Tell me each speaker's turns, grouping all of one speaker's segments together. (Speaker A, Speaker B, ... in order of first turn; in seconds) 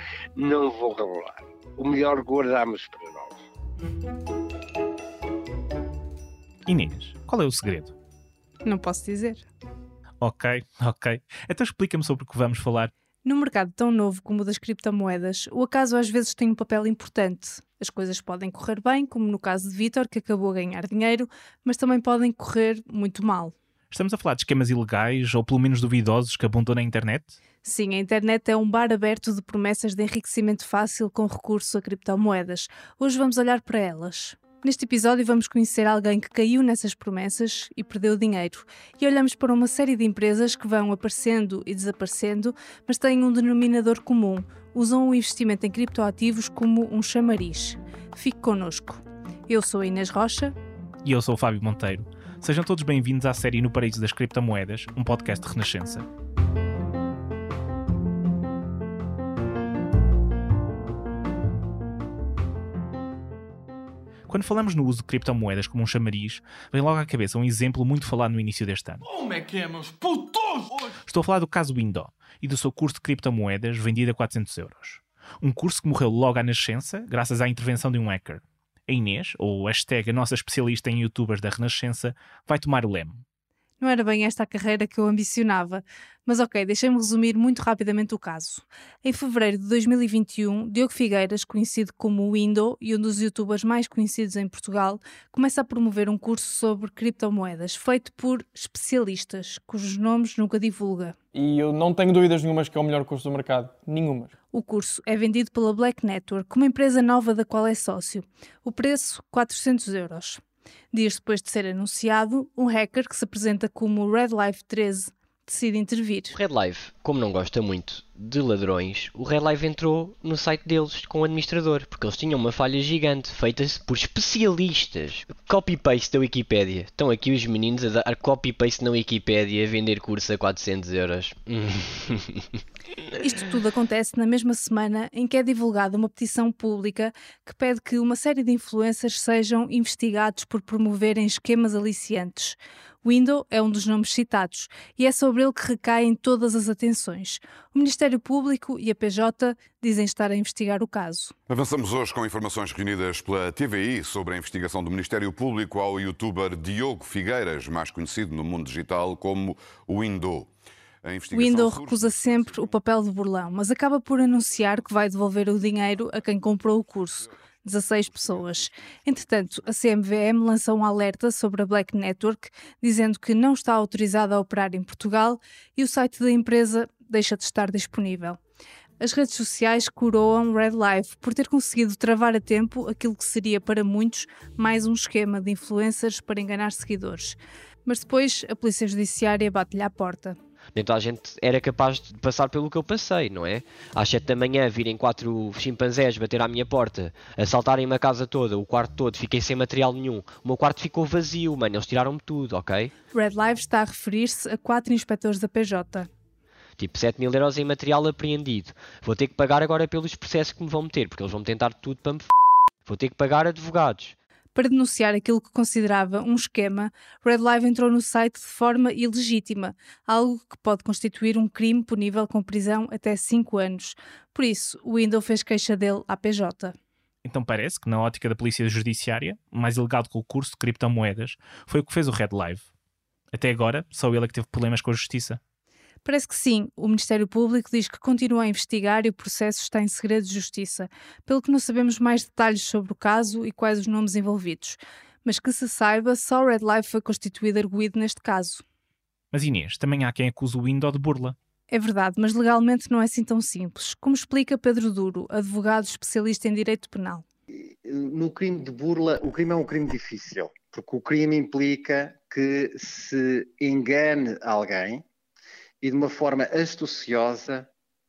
Speaker A: 0.3-3.4
Speaker B: 6.7-7.9, 10.2-12.9, 23.9-27.4, 51.0-56.1, 64.3-69.0, 71.0-83.2, 227.2-232.7, 233.3-235.4, 249.3-251.3
Speaker C: 8.6-9.4, 13.2-23.5, 27.6-50.5, 83.8-101.1, 104.5-110.4, 110.9-116.3, 133.2-151.3, 161.3-178.4, 179.0-190.4, 203.1-206.1, 214.5-226.7, 236.0-248.6, 251.7-257.2
Speaker D: 69.0-71.0, 101.3-104.3
Speaker E: 116.3-132.4, 190.7-202.9, 206.8-212.3, 212.8-214.1
Speaker F: 151.5-160.5, 161.0-162.6
Speaker G: 257.5-265.0, 265.8-267.7